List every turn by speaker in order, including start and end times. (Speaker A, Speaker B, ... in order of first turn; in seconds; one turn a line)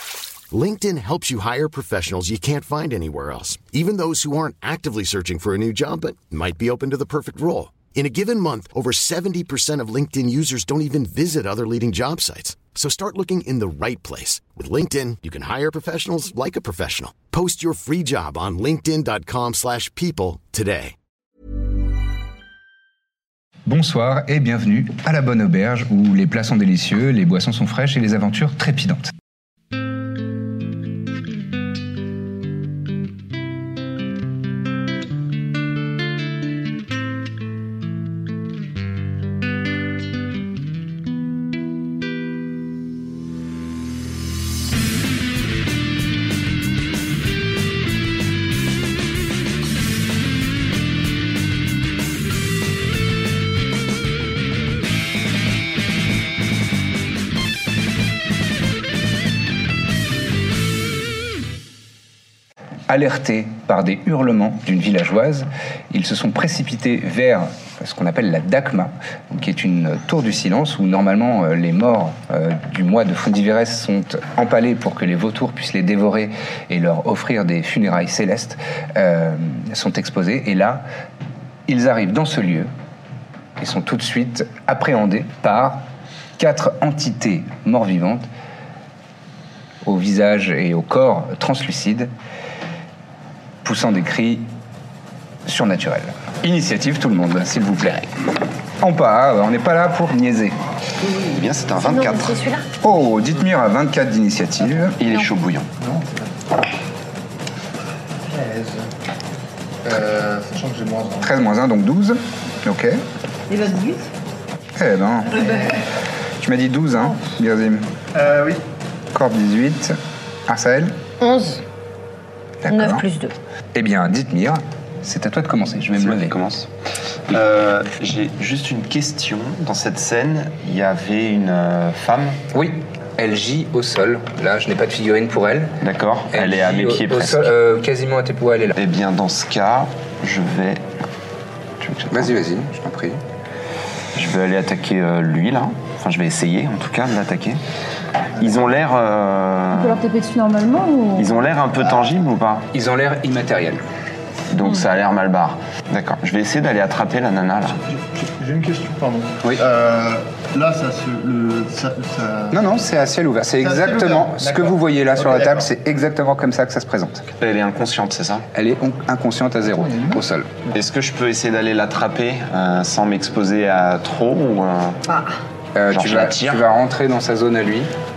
Speaker A: 0.5-20.9
Speaker B: 23.6-29.1
Speaker B: 62.9-80.8
Speaker B: 81.7-82.7
Speaker B: 83.6-85.8
Speaker B: 86.4-88.3
Speaker B: 89.8-92.1
Speaker B: 93.6-94.5
Speaker B: 95.4-98.1
Speaker B: 98.8-100.6
Speaker C: 101.2-102.3
Speaker D: 101.8-102.7
Speaker B: 102.8-105.0
Speaker C: 105.0-105.7
Speaker E: 105.8-106.4
Speaker E: 108.2-108.9
Speaker E: 109.8-111.3
Speaker B: 111.2-113.0
Speaker F: 113.5-114.1
Speaker B: 114.7-115.8
Speaker B: 116.4-117.9
Speaker E: 118.1-118.6
Speaker B: 119.1-121.0
Speaker D: 121.2-121.6
Speaker B: 122.6-123.0
Speaker D: 122.7-123.3
Speaker B: 123.7-126.3
Speaker C: 125.8-126.7
Speaker C: 127.3-132.4
Speaker B: 132.5-138.8
Speaker C: 135.8-137.5
Speaker C: 138.8-140.9
Speaker C: 141.8-142.3
Speaker B: 142.1-143.2
Speaker C: 144.1-147.6
Speaker C: 148.4-150.0
Speaker F: 149.7-151.3
Speaker C: 151.2-152.7
Speaker B: 152.7-153.8
Speaker C: 154.5-157.8
Speaker E: 157.7-162.6
Speaker B: 162.5-167.3
Speaker E: 163.6-165.7
Speaker C: 167.3-168.5
Speaker B: 168.5-170.6
Speaker E: 169.7-170.8
Speaker C: 170.7-175.0
Speaker B: 175.7-177.9
Speaker C: 175.9-176.7